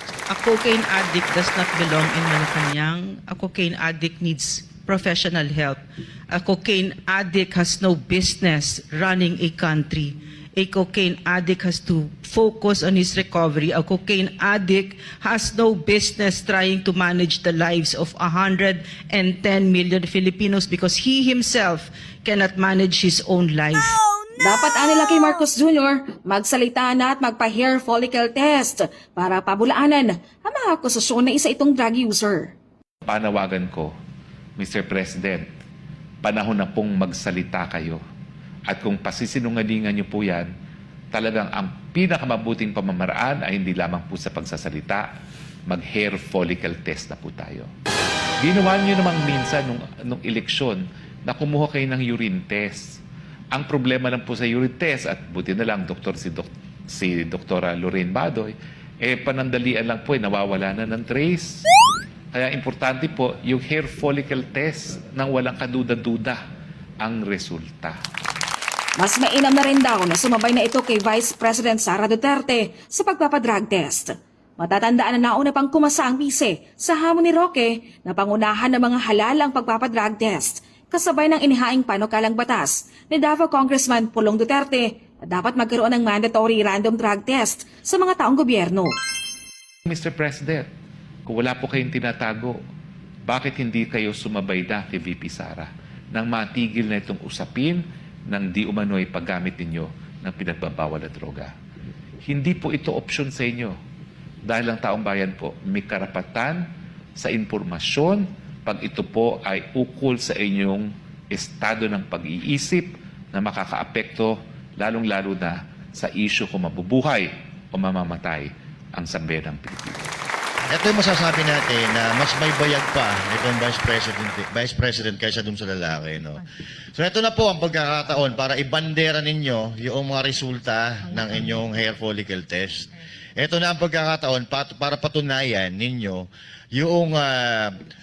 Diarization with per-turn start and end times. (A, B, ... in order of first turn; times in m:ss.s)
0:00.3-0:24.0 A
0:24.4-0:32.5 B
0:33.0-0:33.9 C
0:34.6-0:35.5 C
0:36.2-0:38.0 C
0:38.7-0:40.5 C
0:41.1-0:45.1 C
0:45.7-0:47.7 C
0:48.4-0:53.0 C
0:53.5-1:01.6 C
1:02.3-1:06.4 C
1:07.0-1:08.0 C
1:09.0-1:28.9 B
1:29.9-1:30.7 C
1:31.3-1:32.6 C
1:33.3-1:41.5 C
1:42.2-1:43.7 C
1:44.4-1:46.7 C
1:47.2-2:00.1 C
2:00.7-2:06.4 D
2:07.0-2:17.7 D